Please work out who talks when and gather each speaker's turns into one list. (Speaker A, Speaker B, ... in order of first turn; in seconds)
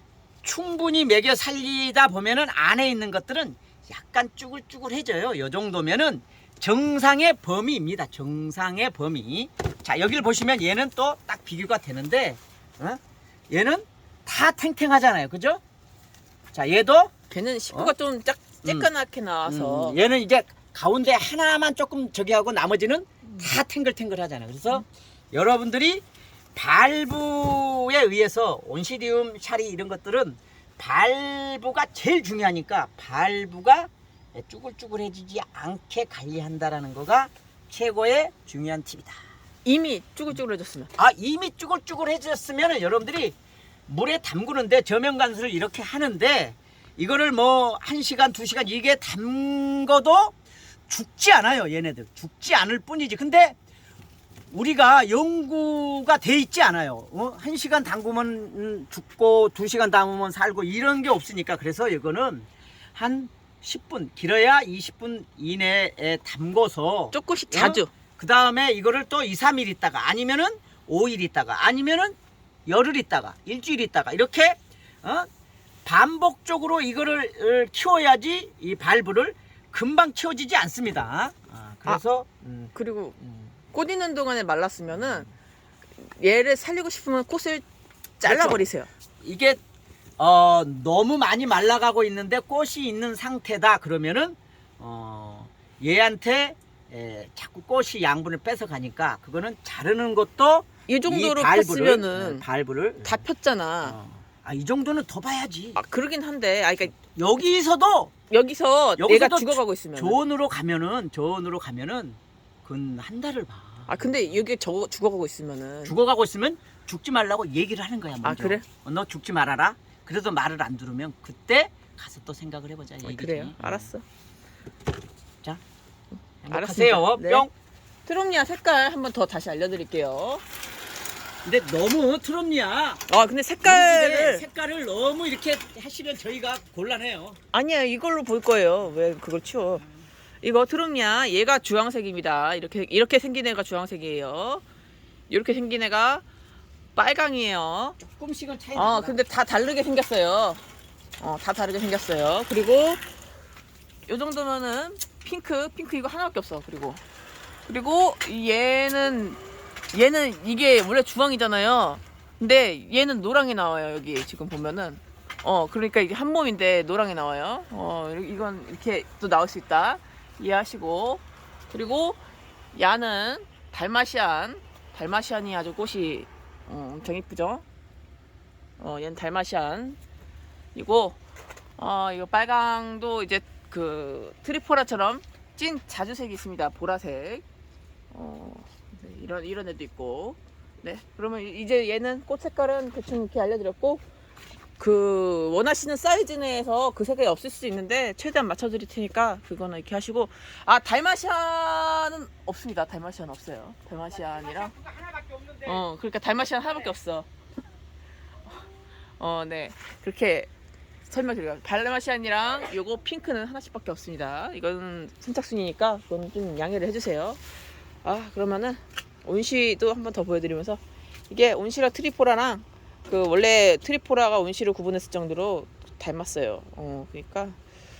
Speaker A: 0.4-15.6, 16.5-17.1, 18.6-18.9, 19.4-26.0, 26.5-39.2, 40.9-43.3, 43.9-50.3, 50.9-53.5, 54.5-75.3, 75.8-83.5, 84.9-85.3, 88.2-88.7, 89.2-89.6, 90.2-103.2, 103.8-105.8, 107.0-108.1, 109.0-114.3, 115.8-123.9, 126.4-127.5, 131.4-133.0, 133.6-137.4, 148.0-149.2
Speaker B: 17.3-20.0, 39.6-40.9, 67.1-67.9, 82.7-83.2, 83.7-85.3, 86.0-87.6, 88.2-88.9, 100.9-102.4, 103.0-104.0, 105.8-107.0, 108.3-110.2, 113.9-116.0, 118.2-118.6, 123.0-124.0, 126.5-127.5, 128.1-130.4, 133.1-134.4, 137.5-139.8, 140.4-144.6, 145.3-146.2, 146.9-148.0, 148.7-150.6, 151.2-153.0, 154.1-157.0, 157.7-159.4, 159.9-172.2, 172.7-177.6, 178.8-180.0, 180.7-181.2, 181.8-187.4, 188.1-194.0, 194.8-204.8, 205.6-207.3, 209.2-210.5, 211.1-217.4, 218.0-227.6